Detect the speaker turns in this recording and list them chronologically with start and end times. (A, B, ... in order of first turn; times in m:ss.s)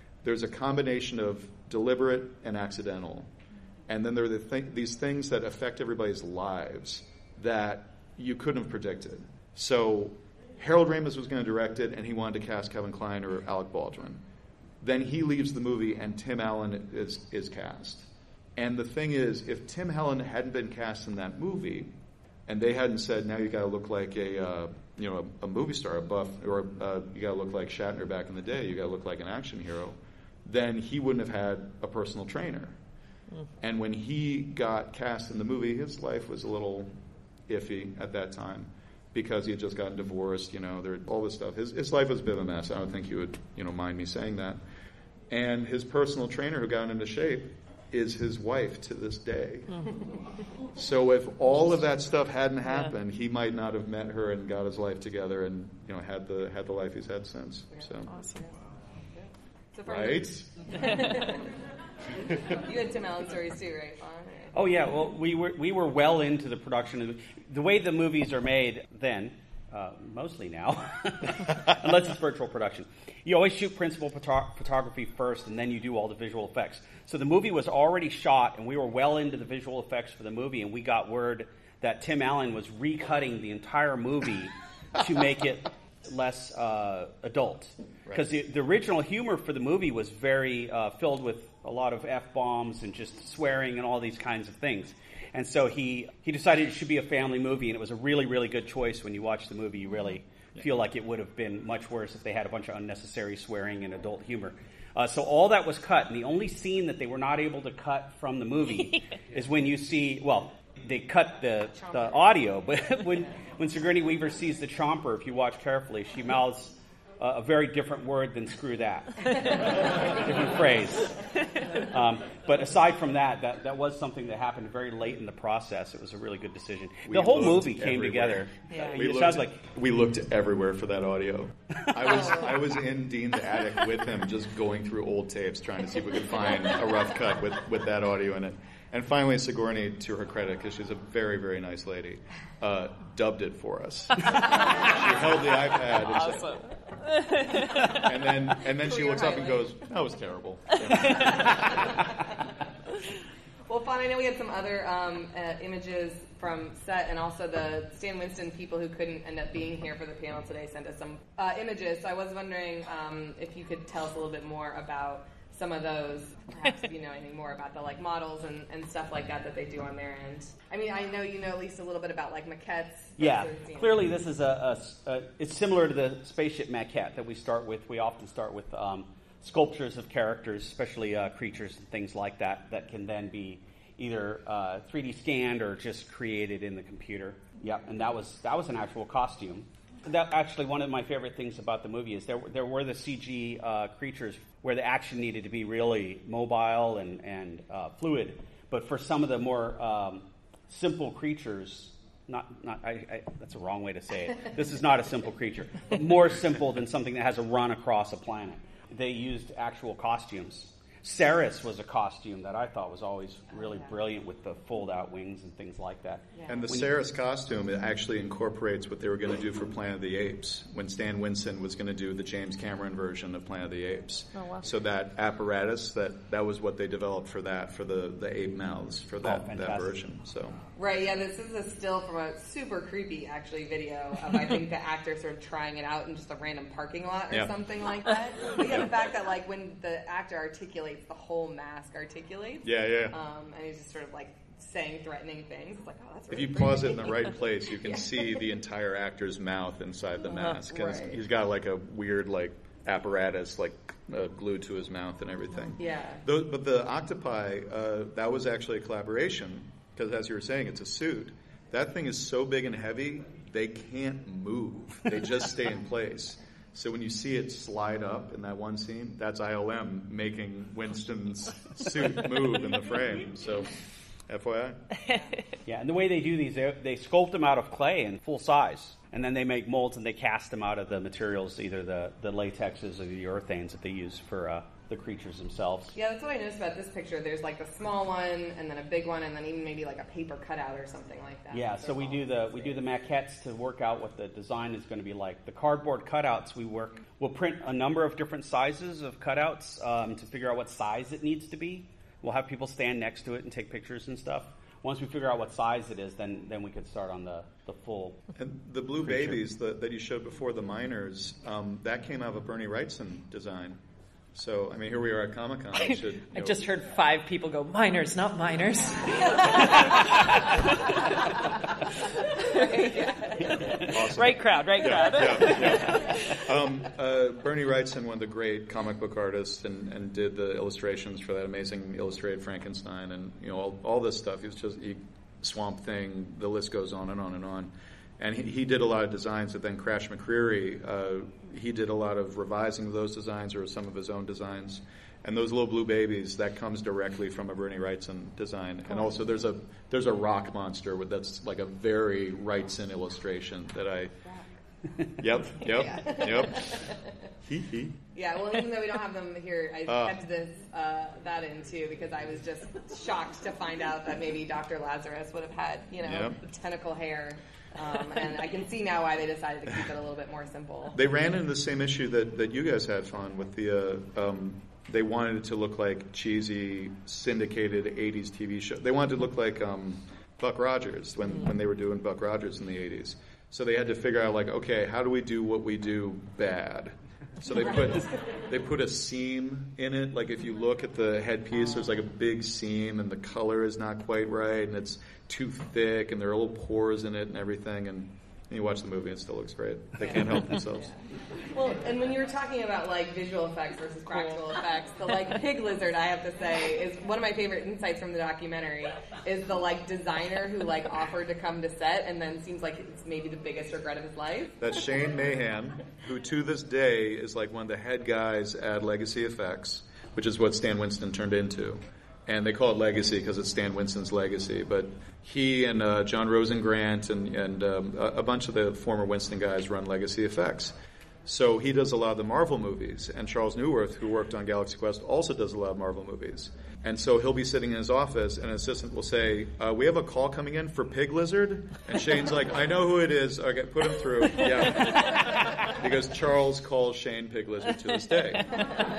0:00.2-0:03.3 A
0:03.9-0:14.2 A
0:14.8-0:21.9 A
0:22.5-0:32.8 A
0:33.6-0:36.9 A
0:37.5-0:44.6 A
0:45.3-0:49.8 A
0:50.7-0:58.1 A
0:58.1-0:58.4 B
0:59.1-1:01.4 C
0:59.8-1:00.9 A
1:02.4-1:04.5 C
1:04.5-2:01.2 D
2:01.7-2:09.6 D
2:07.0-2:26.5 A
2:26.0-2:28.0 B
2:27.7-2:32.0 A
2:28.8-2:29.7 C
2:31.4-2:31.9 C
2:33.7-2:54.0 C
2:53.2-3:36.9 D
3:36.5-3:50.6 A
3:44.3-3:44.6 B
3:49.2-3:49.9 D
3:50.8-4:08.0 C
3:58.6-3:58.9 A
4:02.6-4:03.2 A
4:06.3-4:33.7 A
4:10.6-4:11.2 C
4:15.8-4:16.2 C
4:34.3-4:34.8 A
4:35.6-4:46.0 D
4:45.9-4:52.8 C
4:51.5-5:08.2 D
5:08.4-5:13.8 A
5:09.0-5:09.4 D
5:14.3-5:16.7 A
5:15.8-5:20.2 B
5:22.4-5:23.1 B
5:23.7-5:54.2 A
5:23.8-5:26.3 B
5:55.2-5:56.8 A
5:55.6-5:57.0 C
5:57.4-5:58.0 A
5:58.1-6:11.0 C
5:59.9-6:00.2 A
6:06.0-6:06.4 A
6:10.9-6:40.9 A
6:41.5-6:54.6 C
6:54.6-7:10.7 A
7:11.2-7:28.6 A